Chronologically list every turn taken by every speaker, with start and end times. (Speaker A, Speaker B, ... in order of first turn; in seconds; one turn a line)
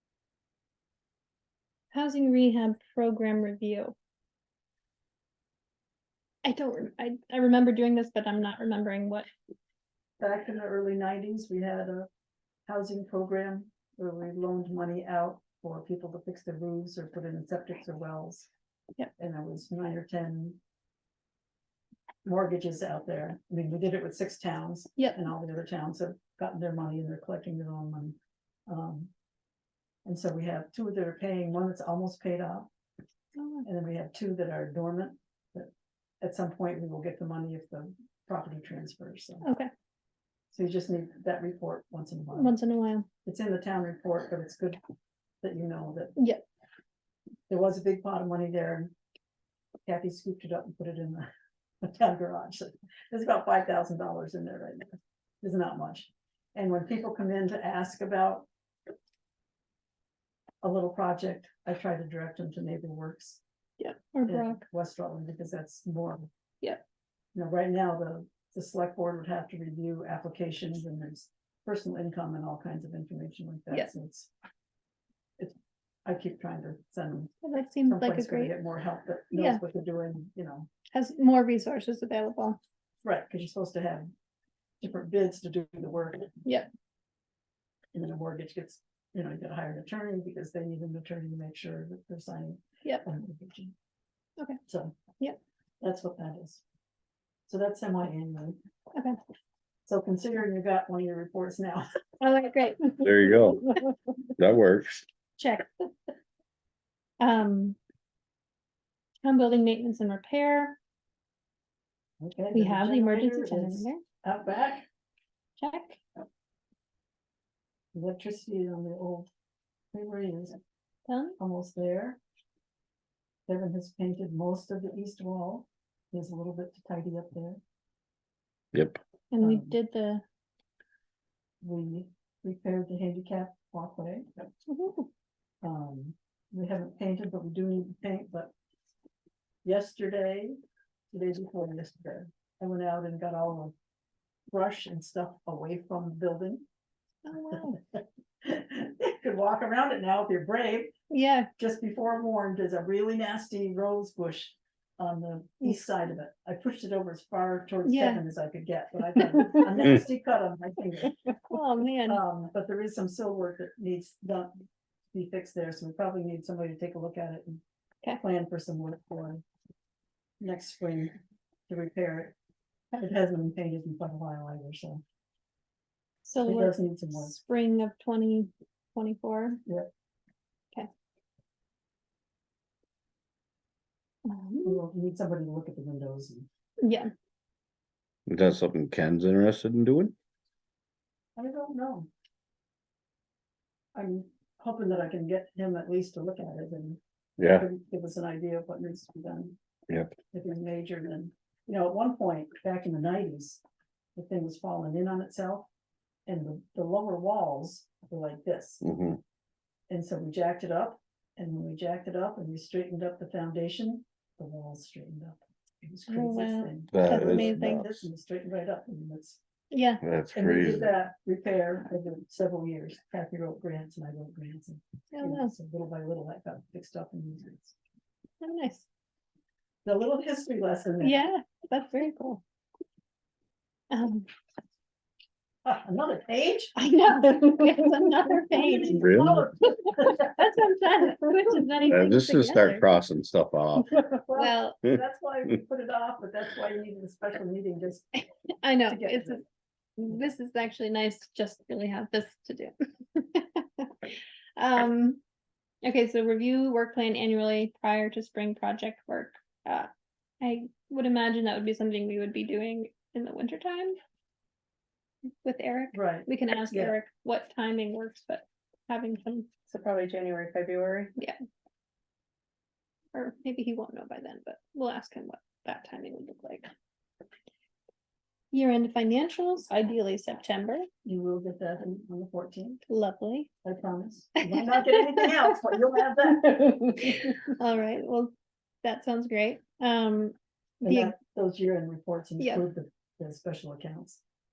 Speaker A: 1.9-4.0
Speaker A: 6.4-9.3
Speaker B: 10.2-12.1
Speaker B: 12.7-18.5
Speaker B: 19.2-20.6
Speaker B: 22.2-29.1
Speaker B: 30.0-32.7
Speaker A: 33.4-33.6
Speaker B: 33.6-35.7
Speaker B: 36.2-39.5
Speaker A: 39.4-39.7
Speaker B: 40.5-42.6
Speaker A: 42.3-43.1
Speaker B: 43.2-44.8
Speaker B: 45.4-46.2
Speaker A: 46.2-46.4
Speaker B: 47.5-48.9
Speaker B: 49.9-51.3
Speaker B: 51.8-58.5
Speaker B: 60.6-63.4
Speaker A: 63.8-64.6
Speaker B: 64.3-66.3
Speaker B: 67.3-74.3
Speaker B: 75.4-77.3
Speaker A: 77.4-78.5
Speaker B: 77.8-80.7
Speaker A: 79.3-79.6
Speaker A: 80.9-82.6
Speaker B: 83.0-84.1
Speaker B: 84.8-86.4
Speaker B: 87.9-93.7
Speaker B: 94.7-95.0
Speaker B: 95.8-96.6
Speaker B: 97.5-98.6
Speaker B: 99.8-101.8
Speaker A: 102.2-103.8
Speaker C: 103.0-103.7
Speaker C: 104.4-105.0
Speaker A: 105.4-105.9
Speaker A: 107.2-107.8
Speaker A: 109.2-110.8
Speaker B: 112.2-114.8
Speaker A: 112.5-114.0
Speaker A: 115.6-116.0
Speaker B: 117.9-119.3
Speaker B: 119.9-120.6
Speaker A: 121.1-121.4
Speaker B: 121.4-122.2
Speaker B: 123.5-127.6
Speaker C: 128.7-129.0
Speaker A: 129.3-130.2
Speaker B: 129.4-129.8
Speaker B: 131.6-134.2
Speaker A: 134.7-135.1
Speaker B: 135.6-138.5
Speaker B: 139.6-140.6
Speaker B: 141.1-143.7
Speaker B: 144.5-146.6
Speaker A: 147.2-147.8
Speaker B: 147.5-150.9
Speaker A: 151.1-151.5
Speaker B: 151.6-161.2
Speaker A: 157.8-158.2
Speaker A: 161.5-162.2
Speaker B: 162.1-167.6
Speaker B: 168.2-169.4
Speaker B: 170.4-171.2
Speaker B: 171.7-172.4
Speaker B: 172.9-175.0
Speaker A: 176.2-179.6
Speaker B: 176.4-177.3
Speaker A: 184.2-184.8
Speaker B: 184.6-186.5
Speaker A: 186.8-187.1
Speaker C: 188.3-190.1
Speaker B: 191.3-192.1
Speaker B: 193.9-199.6
Speaker C: 197.4-197.7
Speaker B: 200.3-203.6
Speaker B: 204.2-205.7
Speaker B: 206.3-208.8
Speaker C: 208.8-209.2
Speaker B: 209.9-219.4
Speaker A: 216.1-217.8
Speaker C: 216.9-218.1
Speaker A: 219.7-220.0
Speaker C: 220.0-220.9
Speaker B: 220.3-227.8
Speaker A: 225.1-225.5
Speaker A: 228.4-228.8
Speaker B: 229.8-231.2
Speaker A: 231.0-232.4
Speaker A: 233.9-234.3
Speaker B: 235.6-236.8
Speaker A: 236.8-242.8
Speaker B: 238.4-240.6
Speaker C: 239.0-239.5
Speaker C: 241.9-243.9
Speaker B: 243.9-248.2
Speaker A: 244.3-244.8
Speaker A: 248.6-249.4
Speaker B: 248.9-249.4
Speaker A: 250.0-255.2
Speaker A: 255.8-259.9
Speaker A: 260.4-263.9
Speaker A: 265.4-269.5
Speaker B: 265.9-266.9
Speaker B: 269.7-271.1
Speaker A: 273.1-276.7
Speaker A: 278.5-280.9
Speaker B: 281.0-282.8
Speaker A: 282.9-283.5
Speaker B: 283.6-287.4
Speaker A: 284.4-285.8
Speaker A: 287.6-291.1
Speaker B: 290.8-294.2